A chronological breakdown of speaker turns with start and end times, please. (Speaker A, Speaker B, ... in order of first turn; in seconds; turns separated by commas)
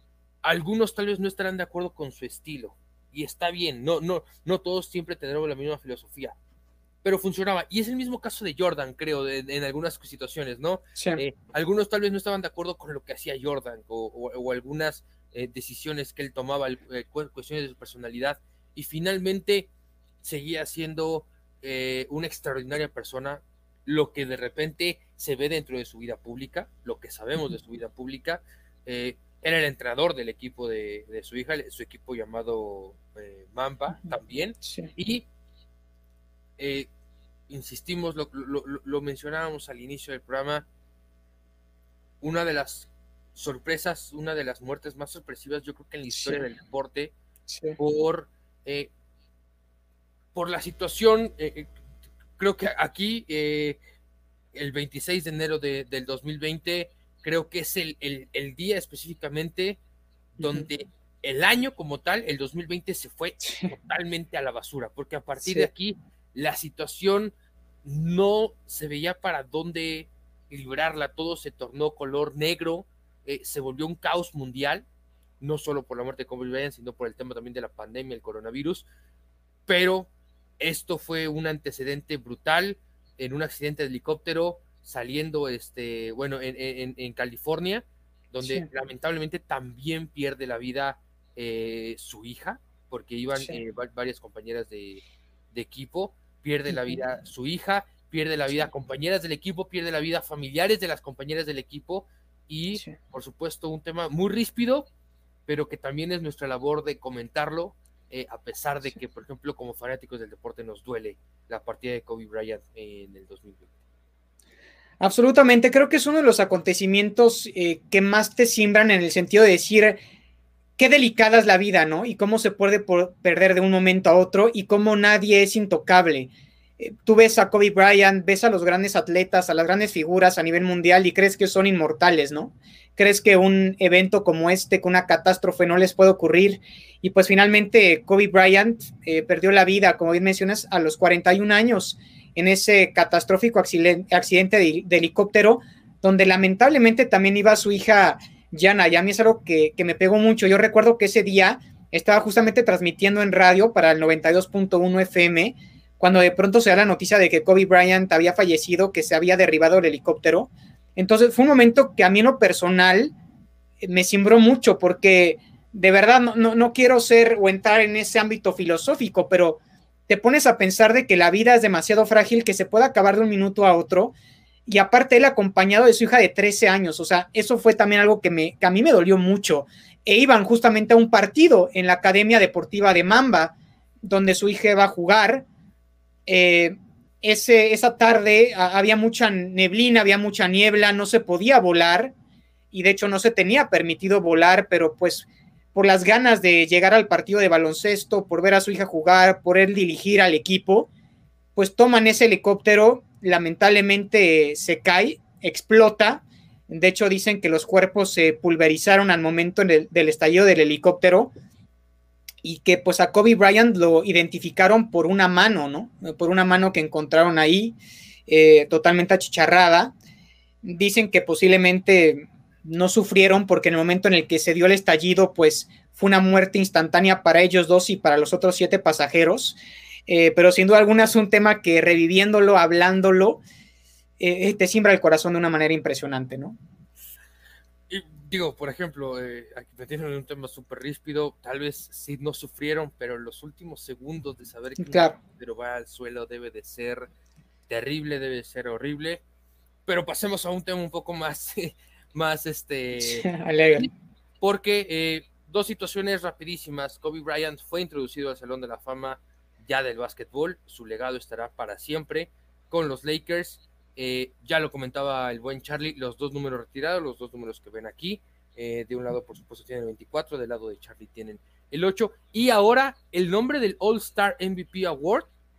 Speaker A: 0.4-6.3, Speaker A: 7.0-19.7, Speaker B: 11.0-11.2, Speaker A: 20.2-35.3, Speaker B: 34.6-34.9, Speaker A: 36.6-36.9, Speaker A: 37.5-40.7, Speaker A: 42.2-47.1, Speaker B: 46.1-46.4, Speaker B: 47.5-47.8, Speaker A: 47.8-48.9, Speaker A: 50.3-51.7, Speaker A: 52.4-53.8, Speaker A: 54.5-59.8, Speaker B: 60.4-60.7, Speaker A: 60.4-67.3, Speaker B: 63.5-63.7, Speaker B: 65.4-65.7, Speaker A: 67.8-74.9, Speaker A: 75.4-78.9, Speaker A: 79.7-104.9, Speaker B: 88.4-88.7, Speaker B: 96.7-97.0, Speaker A: 105.5-113.7, Speaker B: 115.0-120.0, Speaker B: 120.8-163.1, Speaker B: 163.8-174.1, Speaker B: 174.7-185.5, Speaker B: 186.3-192.1, Speaker B: 192.7-200.9, Speaker B: 201.6-211.3, Speaker B: 212.4-219.9, Speaker B: 220.6-233.4, Speaker B: 234.2-236.6, Speaker A: 237.9-247.1, Speaker B: 244.8-245.2, Speaker A: 247.7-249.2, Speaker A: 249.9-253.9, Speaker B: 253.0-253.9, Speaker A: 254.4-275.3